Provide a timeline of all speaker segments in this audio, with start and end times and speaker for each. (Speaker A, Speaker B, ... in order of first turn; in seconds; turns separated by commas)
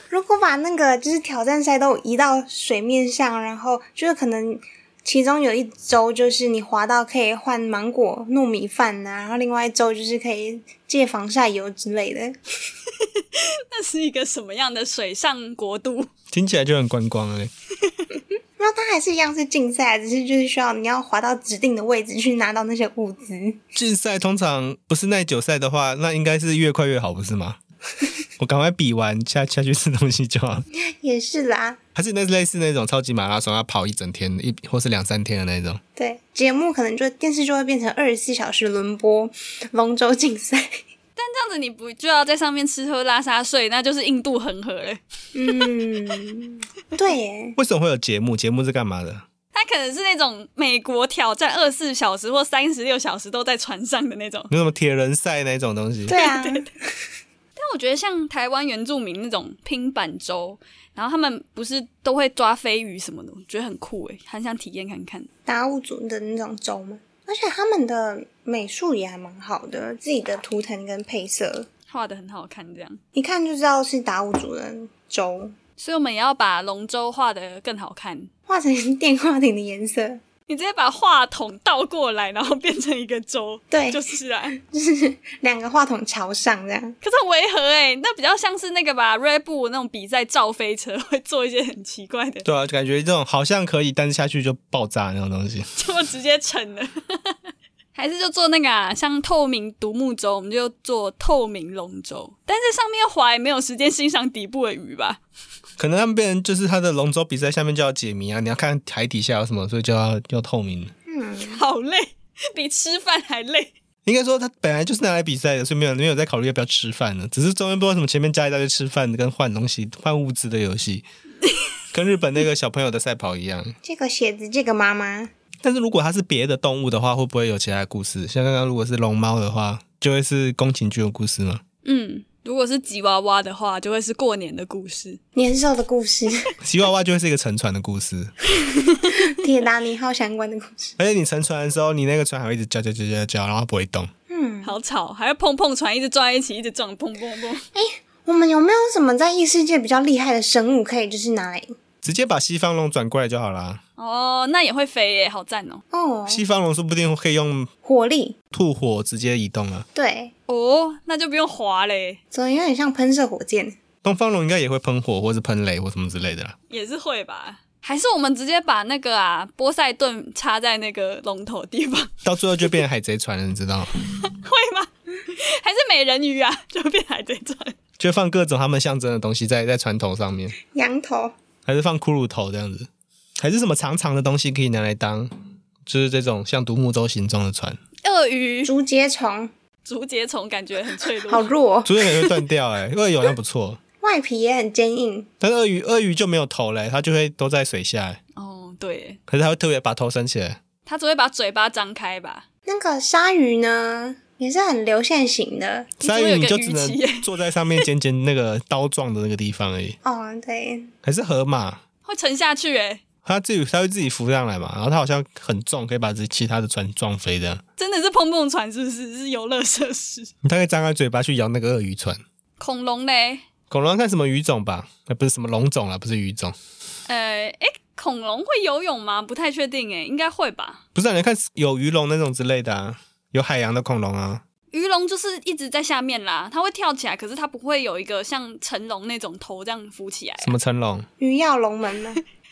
Speaker A: 0.1-12.4, Speaker B: 13.1-16.1, Speaker C: 16.3-17.5, Speaker A: 18.6-23.6, Speaker C: 23.8-27.6, Speaker C: 28.4-30.7, Speaker A: 30.8-31.8, Speaker C: 31.9-35.8, Speaker A: 36.0-40.8, Speaker B: 41.2-45.7, Speaker A: 45.4-47.6, Speaker C: 47.6-49.2, Speaker B: 49.5-54.5, Speaker C: 54.5-56.2, Speaker A: 56.1-56.9, Speaker B: 56.1-56.7, Speaker B: 57.6-65.3, Speaker A: 65.5-71.7, Speaker B: 71.9-73.0, Speaker A: 73.1-75.5, Speaker B: 75.8-78.3, Speaker A: 78.5-80.2, Speaker B: 80.5-84.6, Speaker A: 83.7-84.0, Speaker A: 84.6-87.0, Speaker B: 87.0-92.5, Speaker C: 92.5-95.7, Speaker B: 95.8-97.4, Speaker B: 98.0-105.2, Speaker C: 105.8-110.9, Speaker A: 111.1-111.6, Speaker B: 111.4-113.7, Speaker C: 114.1-121.0, Speaker C: 121.9-123.8, Speaker A: 123.8-125.3, Speaker C: 125.6-131.6, Speaker B: 131.8-135.2, Speaker A: 135.3-136.5, Speaker C: 136.6-138.3, Speaker B: 138.6-139.2, Speaker A: 139.2-140.9, Speaker C: 141.0-144.1, Speaker A: 144.3-144.8, Speaker B: 144.6-147.7, Speaker A: 147.7-151.7, Speaker C: 152.0-153.8, Speaker B: 154.0-155.8, Speaker A: 155.9-156.4, Speaker C: 156.3-157.7, Speaker A: 157.8-158.4, Speaker C: 158.5-159.9, Speaker A: 159.9-160.3, Speaker B: 160.5-162.2, Speaker A: 162.3-163.8, Speaker C: 164.0-166.6, Speaker B: 166.7-172.1, Speaker C: 172.2-173.9, Speaker B: 174.2-177.8, Speaker C: 178.0-180.6, Speaker A: 180.6-181.3, Speaker C: 181.7-182.9, Speaker C: 183.4-185.3, Speaker C: 185.9-187.8, Speaker B: 188.0-188.7, Speaker A: 188.6-189.5, Speaker B: 189.8-191.5, Speaker A: 191.3-192.1, Speaker C: 191.9-193.8, Speaker A: 194.0-195.3, Speaker C: 195.4-198.2, Speaker B: 198.4-199.2, Speaker C: 199.3-200.6, Speaker B: 200.9-202.4, Speaker A: 202.7-205.9, Speaker C: 206.0-210.0, Speaker B: 206.0-207.9, Speaker A: 210.0-210.9, Speaker C: 211.0-211.8, Speaker B: 212.1-213.0, Speaker C: 213.2-217.6, Speaker B: 217.8-220.3, Speaker C: 220.4-222.2, Speaker B: 222.6-223.4, Speaker C: 223.7-226.6, Speaker B: 227.1-230.8, Speaker C: 230.9-234.4, Speaker B: 234.7-240.6, Speaker C: 240.4-241.1, Speaker A: 241.2-242.2